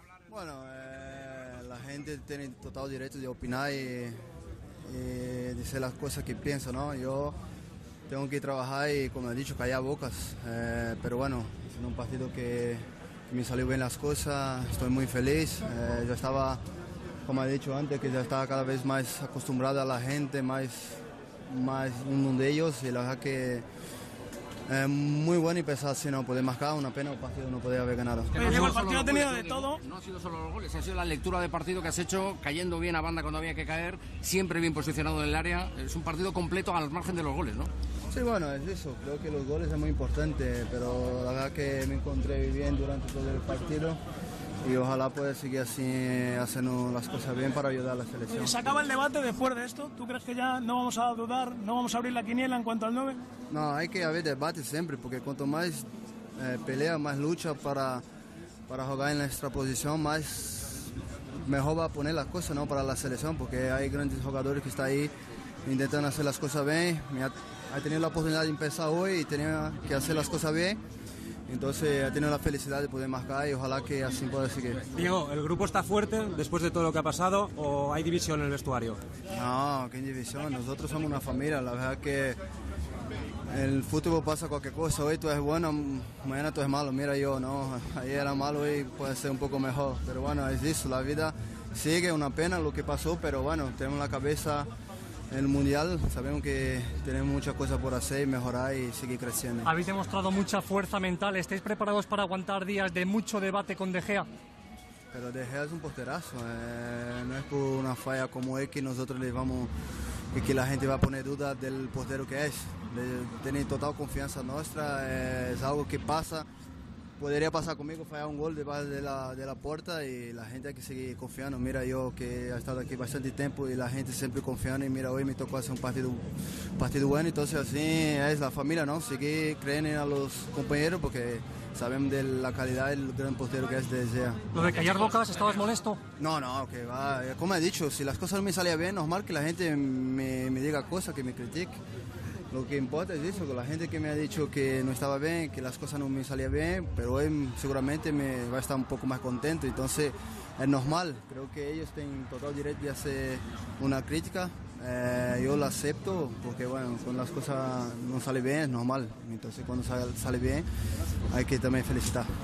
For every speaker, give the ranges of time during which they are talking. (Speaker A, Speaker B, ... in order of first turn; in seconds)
Speaker A: 0.3-4.2, 4.8-7.3, 8.1-16.6, 17.2-23.6, 24.7-28.4, 38.1-44.0, 44.6-48.6, 53.5-58.0, 58.7-65.1, 65.7-70.8, 71.5-74.8, 79.3-82.4, 83.5-94.7, 95.3-99.7, 105.1-109.7, 110.3-116.5, 117.2-126.2, 126.8-134.4, 136.2-141.8, 142.5-160.6, 161.3-162.3
Speaker B: 28.3-37.7
Speaker C: 28.4-29.7, 48.5-53.2
Speaker D: 74.9-79.0
Speaker E: 99.7-104.3, 134.5-136.0